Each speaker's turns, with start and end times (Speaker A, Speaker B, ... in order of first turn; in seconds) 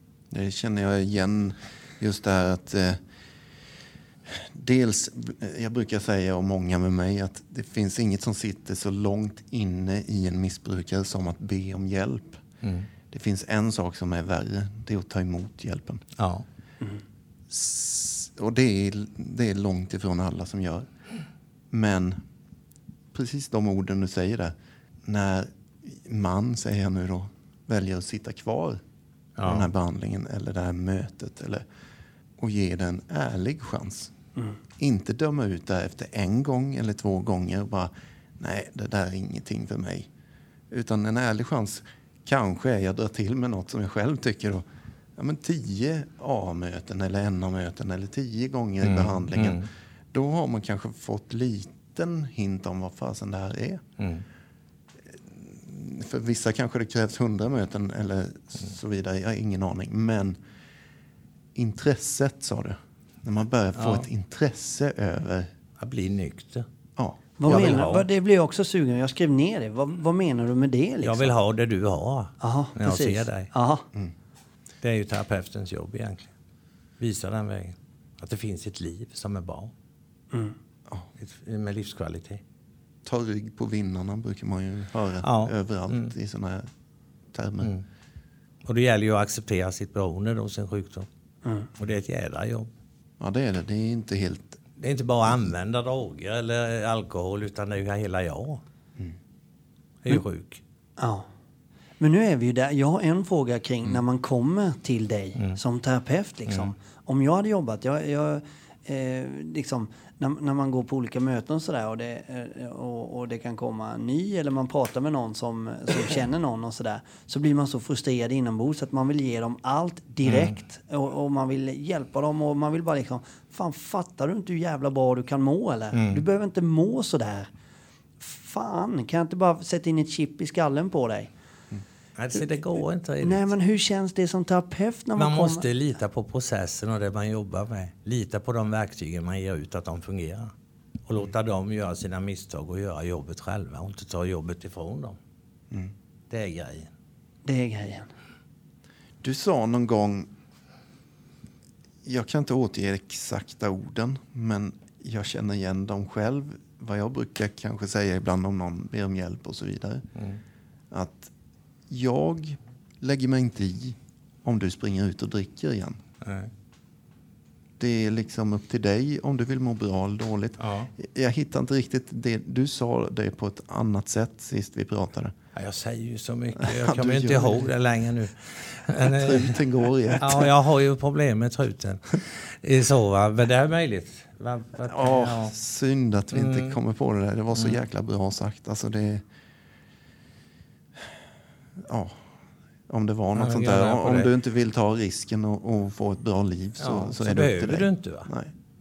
Speaker A: 0.3-3.0, 4.3-12.4, 13.1-16.0, 17.5-20.9, 21.7-22.2, 23.1-24.5, 25.1-28.8, 29.4-31.6, 32.4-34.1, 34.8-40.1, 40.7-44.6, 45.2-53.8, 55.1-60.4, 61.5-65.5, 67.0-67.9, 83.1-86.7, 87.3-87.7, 93.2-94.6, 149.2-150.3, 152.0-160.1, 160.9-161.3, 161.9-166.0, 167.8-175.3, 176.6-177.7, 179.0-180.5, 184.8-189.3, 191.8-192.2, 192.9-198.5
Speaker B: 12.6-12.9, 16.2-16.4, 29.4-29.7, 48.8-49.7, 54.0-54.2, 63.8-64.1, 65.8-66.7, 67.5-68.1, 71.0-73.5, 74.8-76.3, 77.0-79.7, 81.2-82.4, 85.2-86.1, 88.7-91.1, 91.8-92.7, 94.8-98.6, 100.0-100.6, 120.2-120.6, 125.9-126.2, 132.2-133.5, 135.2-140.5, 141.1-145.2, 146.3-146.9, 160.2-160.4, 166.2-166.5, 170.6-170.9, 175.6-179.6, 180.2-185.5, 186.3-186.8, 193.3-194.3, 196.8-198.3
Speaker C: 67.4-71.3, 72.4-73.8, 91.5-91.7, 101.0-101.3, 102.0-127.5, 128.2-131.3, 133.2-135.7, 147.4-148.1